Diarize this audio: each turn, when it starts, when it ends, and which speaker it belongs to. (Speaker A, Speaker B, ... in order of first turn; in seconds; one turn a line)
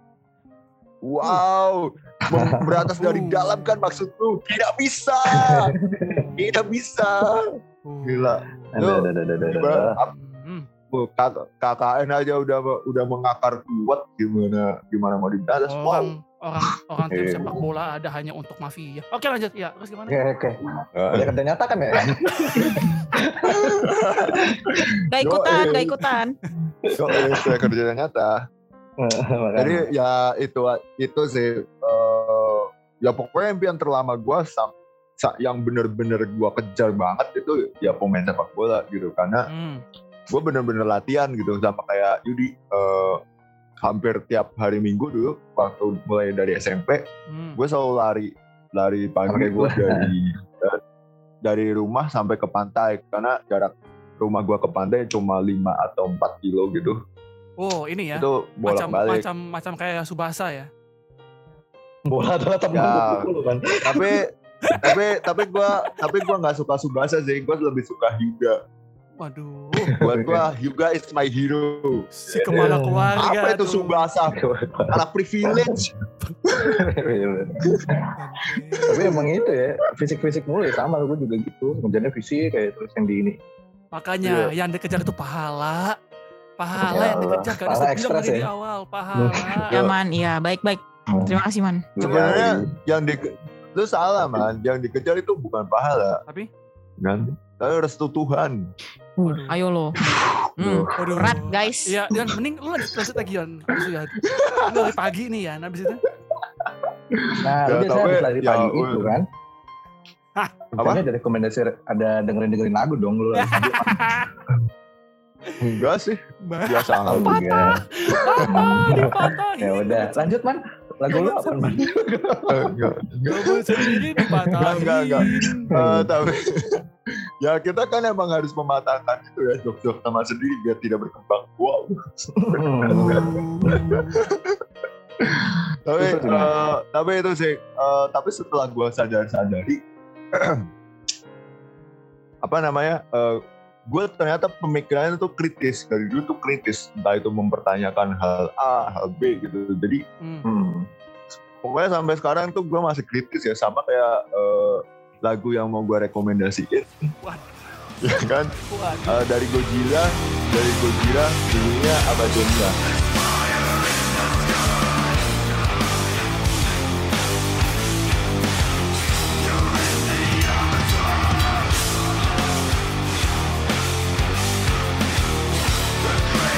Speaker A: 1.0-5.7
Speaker B: 2.3-2.9
Speaker C: 3.0-4.1
Speaker B: 5.3-6.3
Speaker C: 6.0-6.7
Speaker A: 6.4-7.4
Speaker C: 7.9-8.7
Speaker A: 8.1-10.1
Speaker B: 8.7-10.0
Speaker C: 10.1-10.7
Speaker A: 10.9-16.1
Speaker C: 15.7-20.2
Speaker B: 17.1-17.6
Speaker B: 20.1-24.9
Speaker A: 21.0-21.3
Speaker C: 22.4-22.8
Speaker A: 22.6-26.0
Speaker D: 25.1-26.3
Speaker B: 26.8-27.7
Speaker A: 27.0-28.4
Speaker B: 29.0-29.9
Speaker A: 29.6-39.5
Speaker C: 39.5-39.8
Speaker A: 40.3-43.2
Speaker A: 43.8-47.0
Speaker C: 47.3-47.6
Speaker A: 47.5-50.8
Speaker B: 49.3-50.1
Speaker A: 51.4-57.0
Speaker C: 57.6-60.7
Speaker A: 58.1-59.2
Speaker B: 62.1-64.2
Speaker A: 62.7-64.2
Speaker C: 64.7-65.0
Speaker A: 64.8-68.6
Speaker C: 65.6-66.1
Speaker C: 69.2-69.9
Speaker B: 69.9-70.4
Speaker A: 70.0-72.7
Speaker C: 72.1-74.1
Speaker B: 72.5-73.2
Speaker A: 73.2-74.3
Speaker B: 74.3-75.8
Speaker A: 74.9-75.9
Speaker B: 76.6-78.1
Speaker C: 78.2-79.1
Speaker B: 78.9-83.4
Speaker A: 78.9-79.2
Speaker C: 83.9-86.0
Speaker A: 84.2-84.5
Speaker C: 86.6-89.7
Speaker B: 86.8-88.5
Speaker B: 89.2-89.7
Speaker A: 89.7-90.0
Speaker D: 89.7-91.9
Speaker B: 91.1-91.4
Speaker B: 92.0-92.7
Speaker A: 92.0-96.2
Speaker A: 97.0-98.6
Speaker D: 99.2-100.0
Speaker C: 99.2-99.6
Speaker B: 100.6-101.3
Speaker D: 100.6-101.9
Speaker C: 101.0-106.0
Speaker A: 104.2-104.9
Speaker A: 107.1-109.2
Speaker B: 107.4-109.3
Speaker B: 110.8-114.0
Speaker C: 113.3-114.3
Speaker A: 115.6-117.3
Speaker C: 116.5-120.4
Speaker B: 117.1-117.8
Speaker A: 118.4-118.9
Speaker B: 118.5-122.8
Speaker C: 121.1-121.8
Speaker A: 122.5-123.9
Speaker C: 123.3-125.7
Speaker B: 123.8-124.9
Speaker A: 124.6-126.8
Speaker B: 125.7-126.1
Speaker A: 127.4-134.6
Speaker B: 132.3-133.3
Speaker C: 132.9-134.2
Speaker A: 135.2-139.8
Speaker B: 136.0-136.5
Speaker A: 140.3-140.6
Speaker A: 142.4-150.0
Speaker C: 150.2-150.5
Speaker B: 150.4-150.9
Speaker A: 151.6-157.1
Speaker C: 157.2-159.2
Speaker A: 158.0-158.5
Speaker A: 159.1-162.8
Speaker C: 163.9-165.4